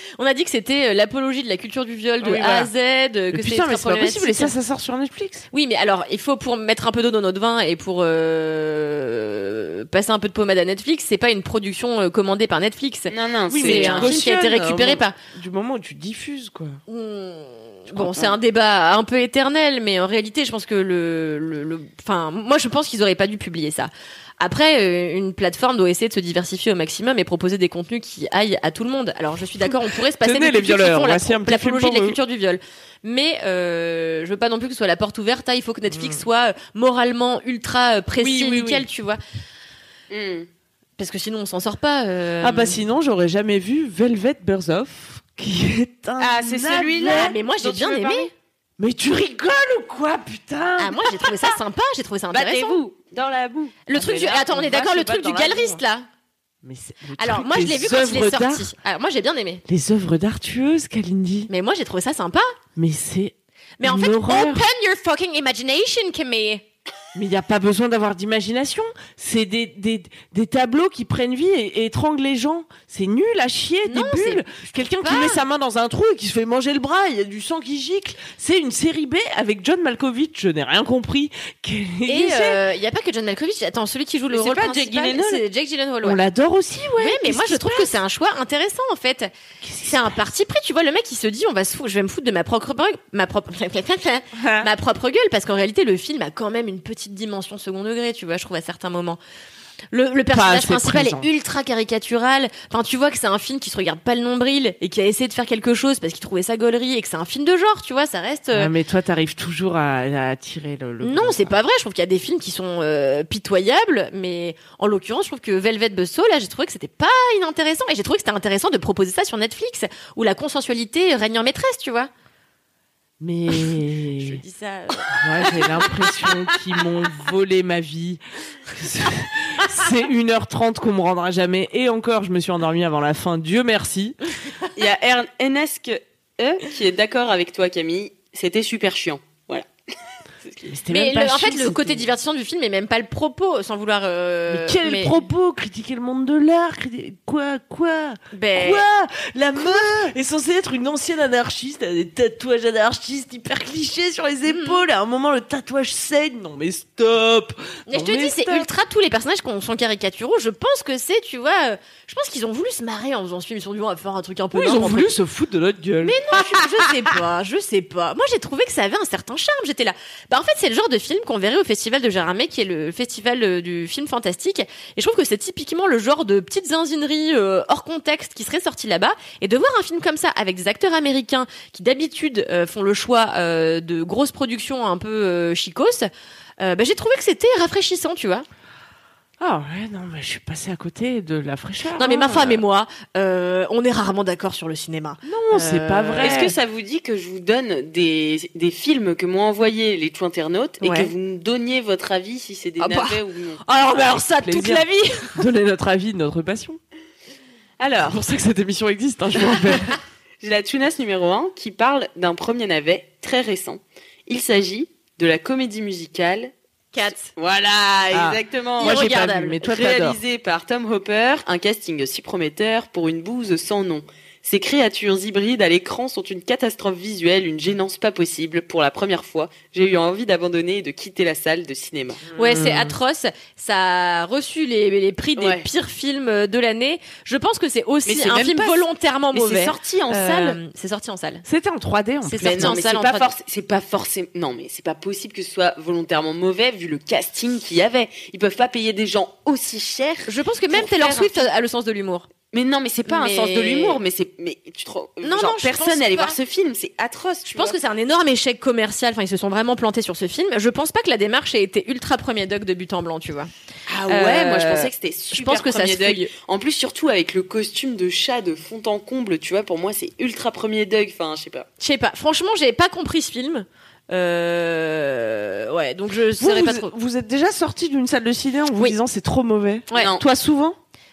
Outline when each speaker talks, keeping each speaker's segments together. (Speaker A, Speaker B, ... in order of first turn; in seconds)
Speaker A: 0.2-4.5, 5.5-15.2, 16.9-39.2, 41.0-42.8, 47.1-48.3, 50.8-52.8, 53.9-56.1, 57.2-59.6, 61.5-62.5, 63.8-66.6, 73.8-75.4, 82.1-86.2, 87.0-89.3, 89.8-99.2, 99.9-108.7, 111.0-122.1, 124.2-126.3, 140.9-145.2, 148.3-148.8, 154.5-154.8, 157.9-165.1, 166.0-186.1, 186.6-188.5, 192.0-196.4, 200.8-201.1, 202.8-205.4, 216.9-217.3, 218.8-219.6, 232.4-241.4, 242.2-243.3, 250.3-252.3, 253.1-254.0, 255.2-256.4, 257.5-263.5, 264.1-266.3, 271.8-276.9
Speaker B: 2.2-2.7, 3.3-5.5, 13.5-16.8, 17.9-18.3, 29.6-32.2, 35.9-36.2, 38.2-38.9, 42.4-47.4, 48.8-51.6, 53.9-55.8, 56.6-58.7, 59.7-61.5, 62.8-64.7, 67.2-82.6, 86.0-87.9, 89.6-90.2, 94.3-94.7, 100.3-101.3, 108.5-111.5, 123.2-124.4, 125.1-134.2, 140.7-142.1, 144.5-158.7, 164.5-167.1, 189.4-192.6, 195.2-196.5, 204.4-206.8, 207.9-210.0, 218.1-220.2, 232.3-232.9, 241.4-242.8, 276.4-280.8
Speaker C: 13.1-14.1, 40.1-40.5, 46.2-48.3, 52.3-53.9, 84.3-85.4, 134.8-139.7, 140.4-140.7, 196.2-203.6, 210.4-216.5, 217.3-232.2, 235.4-235.7, 238.1-240.6, 242.4-251.5, 252.5-257.8, 263.9-271.7, 279.9-280.2